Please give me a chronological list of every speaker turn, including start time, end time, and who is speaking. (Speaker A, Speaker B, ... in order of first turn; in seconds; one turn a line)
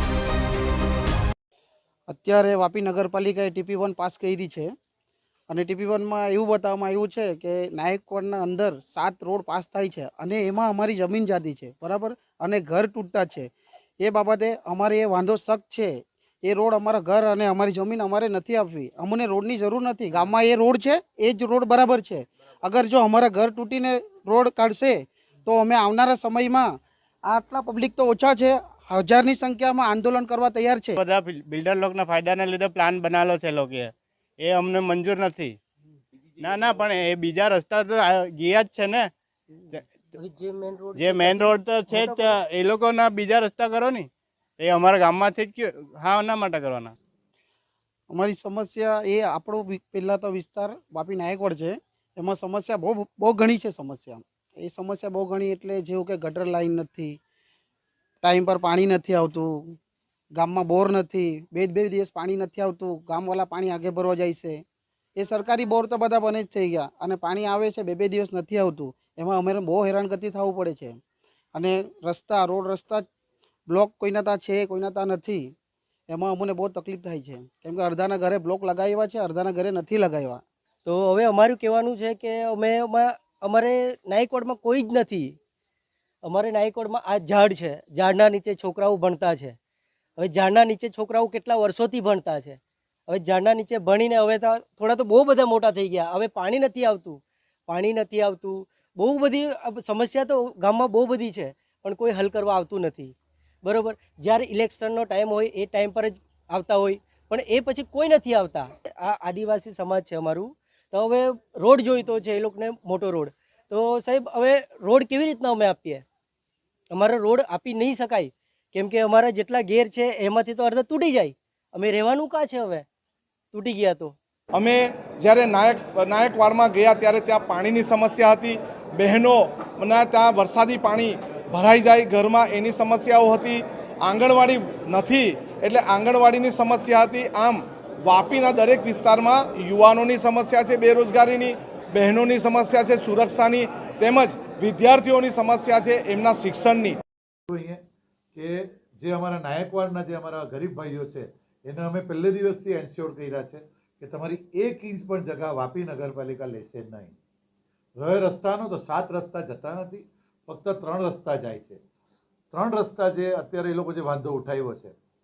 Speaker A: 2.1-4.7
Speaker A: 5.5-13.5
Speaker A: 14.0-26.7
Speaker A: 27.3-31.0
Speaker B: 31.0-35.6
Speaker B: 36.4-39.1
Speaker C: 40.1-42.4
Speaker B: 41.0-47.0
Speaker A: 48.1-57.2
Speaker A: 58.2-59.8
Speaker A: 60.4-64.6
Speaker A: 65.2-71.0
Speaker A: 71.5-73.0
Speaker A: 73.7-75.5
Speaker A: 76.1-80.4
Speaker C: 80.8-85.4
Speaker C: 86.2-89.6
Speaker C: 90.2-116.0
Speaker C: 116.9-122.8
Speaker C: 123.5-124.2
Speaker D: 124.6-147.0
Speaker E: 147.5-147.8
Speaker E: 148.3-157.2
Speaker E: 158.0-161.8
Speaker E: 162.5-164.9